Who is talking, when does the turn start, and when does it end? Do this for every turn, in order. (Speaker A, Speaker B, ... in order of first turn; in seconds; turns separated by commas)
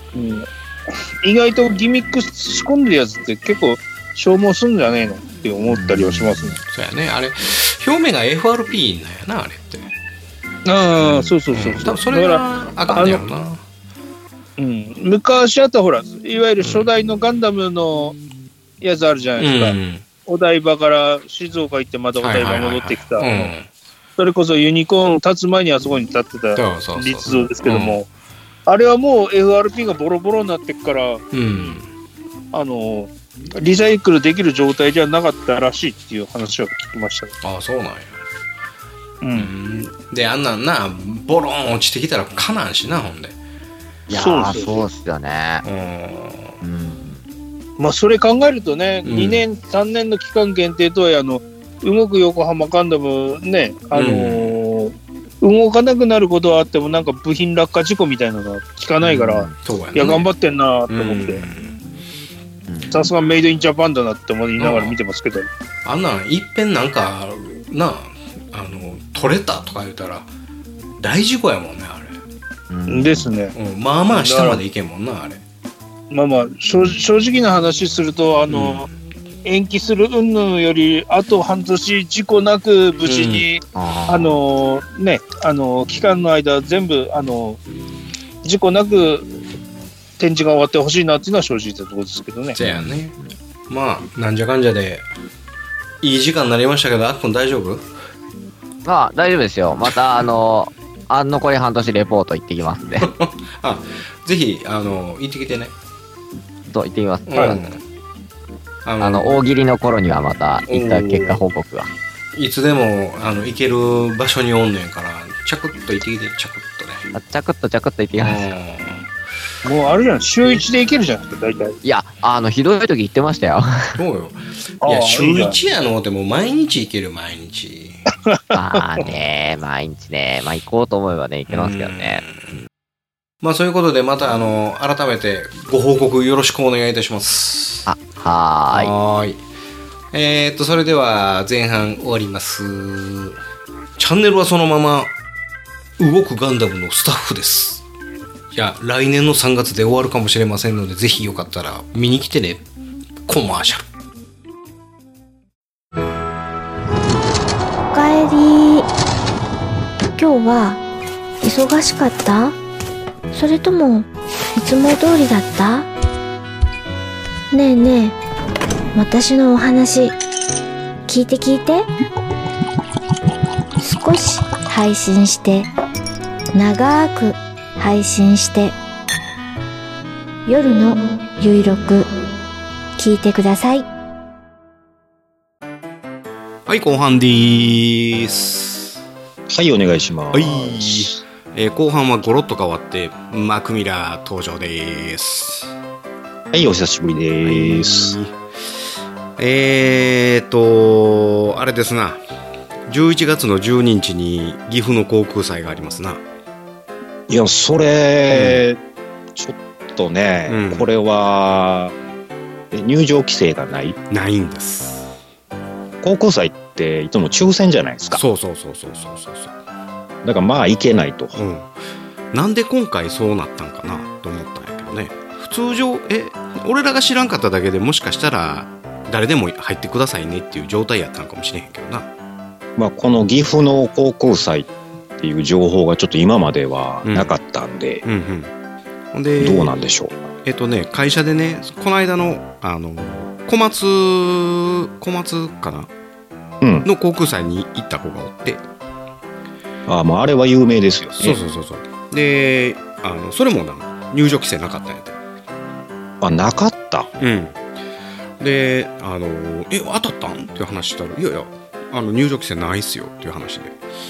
Speaker A: 0.1-6.6, Speaker B: 5.7-6.4, Speaker C: 6.7-9.9, Speaker A: 10.7-13.2, Speaker B: 11.0-11.3, Speaker C: 11.5-13.6, Speaker A: 14.6-18.1, Speaker C: 16.6-16.9, Speaker A: 18.8-19.8, Speaker C: 19.4-20.0, Speaker A: 20.3-23.5, Speaker C: 22.2-23.7, Speaker A: 24.2-28.1, Speaker C: 26.5-28.0, Speaker A: 28.6-31.2, Speaker C: 31.3-31.9, Speaker A: 32.5-37.3, Speaker C: 37.4-38.2, Speaker A: 39.2-39.5, Speaker C: 39.3-43.4, Speaker B: 44.1-45.6, Speaker A: 44.1-44.9, Speaker C: 45.6-46.5, Speaker B: 46.6-47.2, Speaker A: 47.8-61.4, Speaker C: 49.0-49.4, Speaker C: 53.9-54.6, Speaker B: 59.0-59.5, Speaker C: 59.6-60.3, Speaker C: 60.9-61.8, Speaker B: 62.7-63.0, Speaker A: 62.9-65.5, Speaker C: 64.6-65.0, Speaker C: 65.8-70.3, Speaker C: 71.0-72.2, Speaker B: 72.7-73.3, Speaker A: 72.9-73.5, Speaker C: 73.5-75.4, Speaker A: 74.1-74.6, Speaker A: 76.1-78.9, Speaker C: 78.5-78.8, Speaker A: 79.4-87.6, Speaker C: 83.0-83.5, Speaker B: 83.7-84.4, Speaker A: 88.4-89.3, Speaker A: 90.2-92.6, Speaker C: 92.5-93.2, Speaker B: 92.6-93.3, Speaker C: 93.7-95.1, Speaker C: 96.0-97.9, Speaker B: 98.8-103.1, Speaker C: 103.0-105.7, Speaker B: 106.7-107.6, Speaker C: 107.3-107.8, Speaker C: 108.8-109.4, Speaker B: 109.0-111.9, Speaker C: 110.7-111.4, Speaker C: 112.3-117.1, Speaker B: 117.1-118.4, Speaker C: 118.2-119.1, Speaker A: 119.6-121.8, Speaker B: 121.8-124.0, Speaker C: 123.9-128.0, Speaker A: 124.8-125.6, Speaker A: 128.2-129.1, Speaker B: 128.5-132.2, Speaker C: 131.5-132.6, Speaker C: 133.4-137.9, Speaker B: 137.9-138.9, Speaker C: 138.7-139.4, Speaker C: 140.1-143.4, Speaker C: 144.0-145.1, Speaker C: 146.0-147.8, Speaker C: 148.5-152.6, Speaker C: 153.3-153.8, Speaker D: 157.9-158.9, Speaker D: 160.2-160.8, Speaker D: 161.4-162.6, Speaker D: 163.3-165.9, Speaker D: 167.5-168.2, Speaker D: 168.9-170.2, Speaker D: 171.1-171.9, Speaker D: 173.8-175.7, Speaker D: 176.5-178.8, Speaker D: 180.4-182.1, Speaker D: 183.0-183.9, Speaker C: 186.7-189.0, Speaker E: 189.5-191.2, Speaker C: 190.3-195.7, Speaker E: 196.5-198.1, Speaker C: 197.4-198.3, Speaker C: 199.4-202.2, Speaker C: 202.9-206.2, Speaker E: 207.3-208.8, Speaker C: 208.3-208.6, Speaker E: 209.3-211.9, Speaker C: 210.5-210.9, Speaker E: 212.7-214.0, Speaker C: 214.1-215.1, Speaker E: 216.0-218.2, Speaker C: 218.1-219.5, Speaker E: 220.2-221.4, Speaker C: 221.3-221.7, Speaker C: 222.3-232.1, Speaker E: 232.8-238.0, Speaker C: 237.0-237.3, Speaker C: 238.0-238.5, Speaker C: 239.1-239.7, Speaker E: 239.4-240.1, Speaker C: 240.4-245.9, Speaker E: 246.6-246.9, Speaker C: 246.8-248.6, Speaker E: 249.9-251.4, Speaker C: 251.2-255.2, Speaker E: 256.2-257.1, Speaker C: 257.2-257.6, Speaker C: 258.4-263.7